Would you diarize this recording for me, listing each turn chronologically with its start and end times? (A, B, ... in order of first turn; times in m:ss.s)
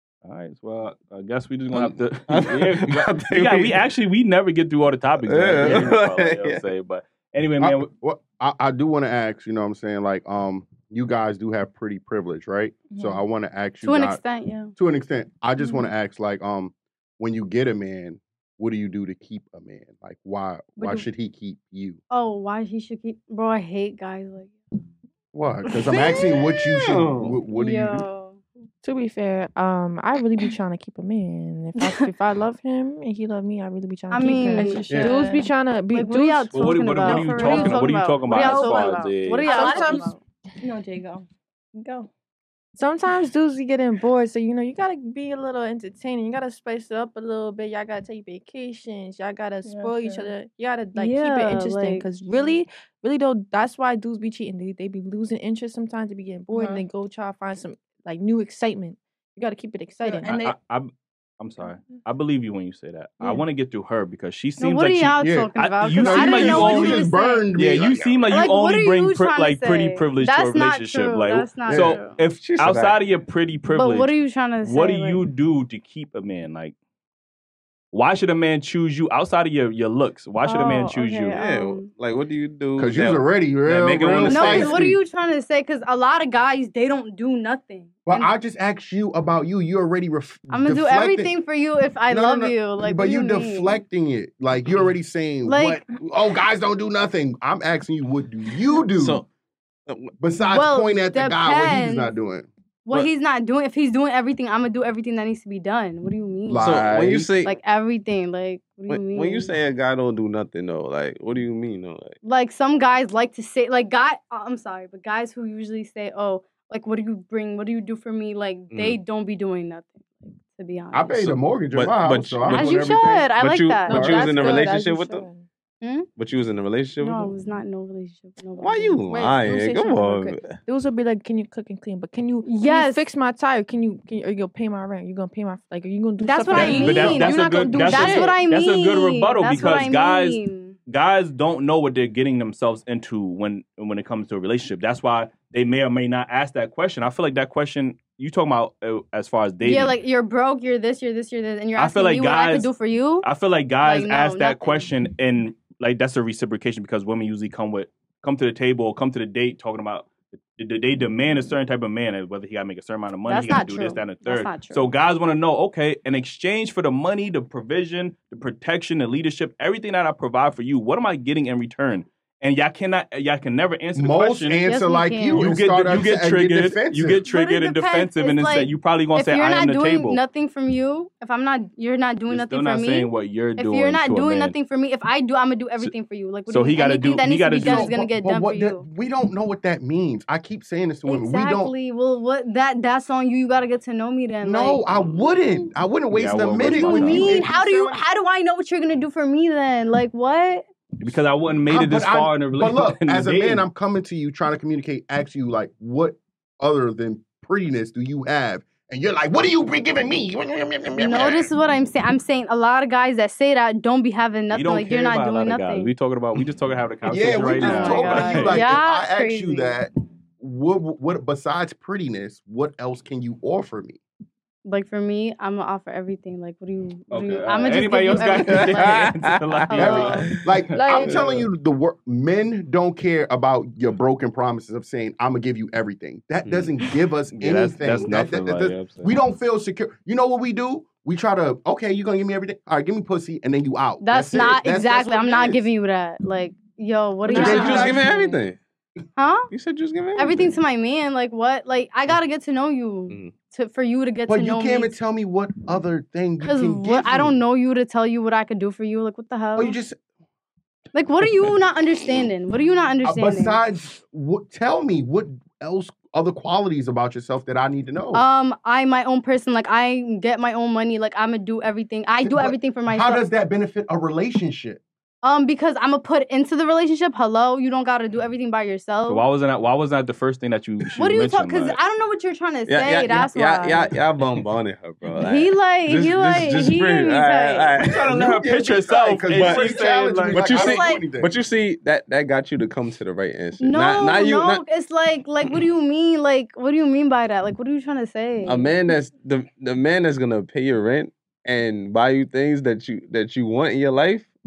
0:00.2-0:07.9 A
0:01.7-0:03.8 B
0:05.2-0:06.6 B
0:07.6-0:14.2 C
0:12.9-0:13.2 D
0:13.8-0:14.7 E
0:14.8-0:22.0 C
0:20.8-0:21.0 D
0:22.1-0:24.6 E
0:25.3-0:28.0 C
0:25.9-0:27.4 B
0:27.5-0:28.4 E
0:28.8-0:37.7 F
0:31.8-0:32.1 D
0:34.1-0:35.1 E
0:34.2-0:35.5 D
0:34.9-0:35.1 C
0:35.9-0:40.2 E
0:36.5-0:39.5 A
0:37.1-0:40.1 D
0:39.5-0:40.1 F
0:40.6-0:42.1 D
0:42.8-1:00.3 F
0:49.6-0:50.3 D
0:51.0-0:52.1 E
0:56.5-0:56.8 D
1:00.0-1:00.5 D
1:00.3-1:16.8 A
1:04.6-1:07.5 E
1:05.2-1:08.2 C
1:08.3-1:12.3 E
1:11.6-1:12.0 C
1:12.2-1:13.0 B
1:13.7-1:15.2 E
1:17.9-1:21.4 A
1:20.4-1:21.9 E
1:21.3-1:23.3 B
1:22.8-1:25.0 C
1:23.7-1:24.9 A
1:24.2-1:28.3 E
1:28.1-1:31.3 C
1:30.5-1:33.8 E
1:32.1-1:39.2 C
1:35.5-1:35.8 E
1:38.9-1:39.3 B
1:39.9-1:40.1 B
1:40.2-1:42.5 C
1:40.5-1:42.1 E
1:42.8-1:49.5 E
1:46.5-1:47.4 C
1:46.6-1:47.6 B
1:48.9-1:52.2 B
1:52.2-2:01.4 E
1:58.7-1:59.0 B
2:00.9-2:03.3 C
2:01.7-2:05.3 B
2:02.4-2:04.7 E
2:03.9-2:04.5 C
2:04.0-2:05.5 F
2:05.8-2:06.1 E
2:06.2-2:07.4 B
2:07.0-2:09.0 E
2:08.6-2:10.6 B
2:09.1-2:18.4 F
2:12.4-2:13.1 E
2:16.2-2:20.8 E
2:16.5-2:30.0 A
2:29.6-2:33.3 E
2:31.8-2:32.7 A
2:33.2-2:54.6 A
2:33.8-2:34.9 E
2:43.3-2:44.9 E
2:54.0-2:57.2 C
2:54.6-2:55.6 E
2:55.3-3:00.2 A
2:57.3-3:08.8 E
3:02.3-3:04.6 A
3:06.5-3:08.0 A
3:07.6-3:11.7 C
3:11.1-3:14.8 E
3:14.4-3:18.0 C
3:16.1-3:17.5 A
3:16.6-3:20.7 E
3:21.0-3:23.7 A
3:21.7-3:31.5 C
3:30.9-3:35.9 E
3:34.5-3:38.6 A
3:37.0-3:44.0 C
3:37.2-3:39.8 E
3:44.6-3:49.1 E
3:47.1-3:51.1 A
3:48.5-3:50.3 B
3:49.7-3:50.4 E
3:49.8-4:05.6 C
3:50.8-3:51.2 F
3:56.4-3:56.8 B
3:57.4-3:59.1 A
4:04.0-4:08.4 E
4:07.2-4:08.6 B
4:07.3-4:08.0 C
4:07.3-4:08.0 D
4:09.2-4:09.5 E
4:09.5-4:10.6 B
4:10.2-4:14.9 E
4:13.1-4:13.4 B
4:14.3-4:17.4 C
4:16.4-4:19.8 E
4:19.6-4:20.0 C
4:20.9-4:23.6 E
4:23.0-4:28.2 C
4:28.1-4:33.2 E
4:32.2-4:34.8 C
4:35.2-4:39.2 E
4:39.1-4:41.8 A
4:41.0-4:43.9 E
4:42.7-4:48.1 B
4:45.2-4:47.7 E
4:47.8-4:50.6 A
4:48.0-4:51.3 C
4:49.3-4:54.6 B
4:50.5-4:51.1 E
4:53.6-4:58.8 E
4:58.4-5:04.3 B